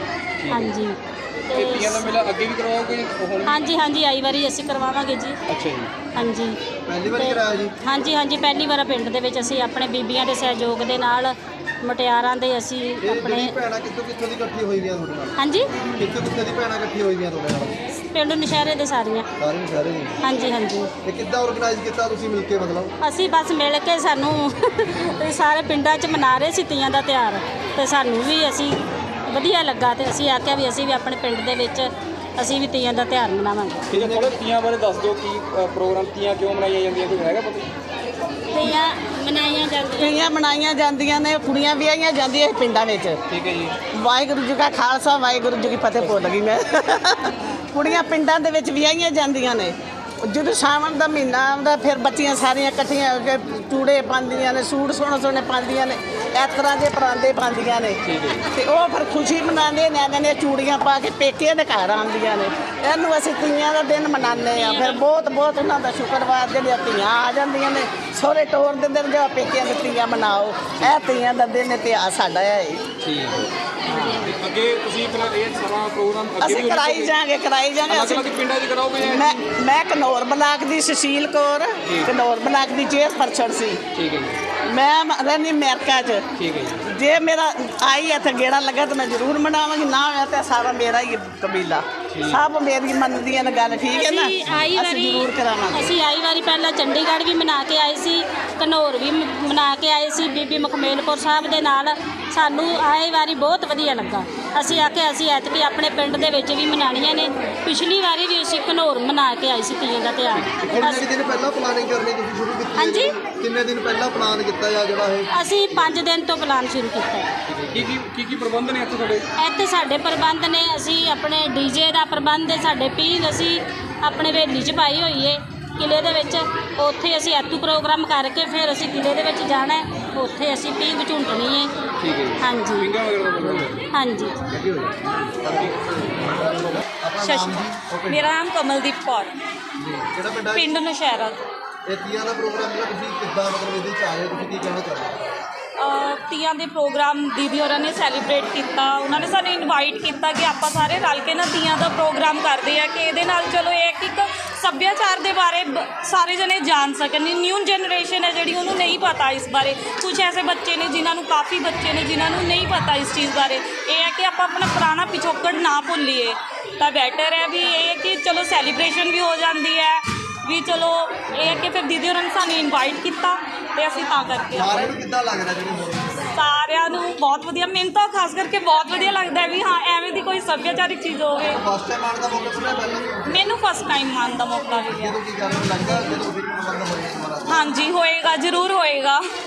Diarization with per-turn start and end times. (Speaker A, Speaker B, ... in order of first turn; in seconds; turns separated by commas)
Speaker A: 0.4-0.7, Speaker B: 0.5-1.0, Speaker B: 1.5-2.0, Speaker A: 1.5-3.6, Speaker B: 3.5-5.4, Speaker A: 5.5-5.9, Speaker B: 6.2-6.6, Speaker C: 6.9-7.7, Speaker B: 7.1-13.5, Speaker C: 13.0-15.3, Speaker B: 15.4-15.7, Speaker C: 16.0-17.8, Speaker B: 17.9-19.3, Speaker C: 19.4-20.2, Speaker B: 20.2-20.9, Speaker C: 21.1-22.9, Speaker B: 23.0-33.9, Speaker A: 33.9-37.7, Speaker B: 38.5-40.3, Speaker D: 40.0-43.2, Speaker A: 43.3-43.8, Speaker D: 43.9-72.8, Speaker A: 58.0-58.4, Speaker B: 64.5-65.0, Speaker A: 73.0-77.1, Speaker D: 76.4-78.3, Speaker A: 77.9-79.4, Speaker D: 79.0-83.8, Speaker A: 81.9-82.1, Speaker A: 83.9-84.4, Speaker D: 84.7-86.2, Speaker A: 86.4-86.9, Speaker D: 86.8-96.0, Speaker A: 92.1-92.4, Speaker B: 93.9-111.1, Speaker C: 110.6-115.3, Speaker B: 112.8-113.2, Speaker B: 115.3-117.3, Speaker A: 117.5-119.3, Speaker B: 119.4-131.7, Speaker A: 132.0-133.8, Speaker B: 132.4-132.9, Speaker B: 133.9-134.4, Speaker C: 134.5-138.3, Speaker A: 135.2-135.7, Speaker E: 137.2-139.3, Speaker C: 139.8-140.7, Speaker E: 140.5-141.4, Speaker C: 141.9-145.3, Speaker E: 145.8-174.9, Speaker C: 174.5-176.3, Speaker E: 176.3-181.6, Speaker C: 181.4-183.4, Speaker E: 183.3-185.2, Speaker C: 184.9-187.7, Speaker E: 187.5-189.2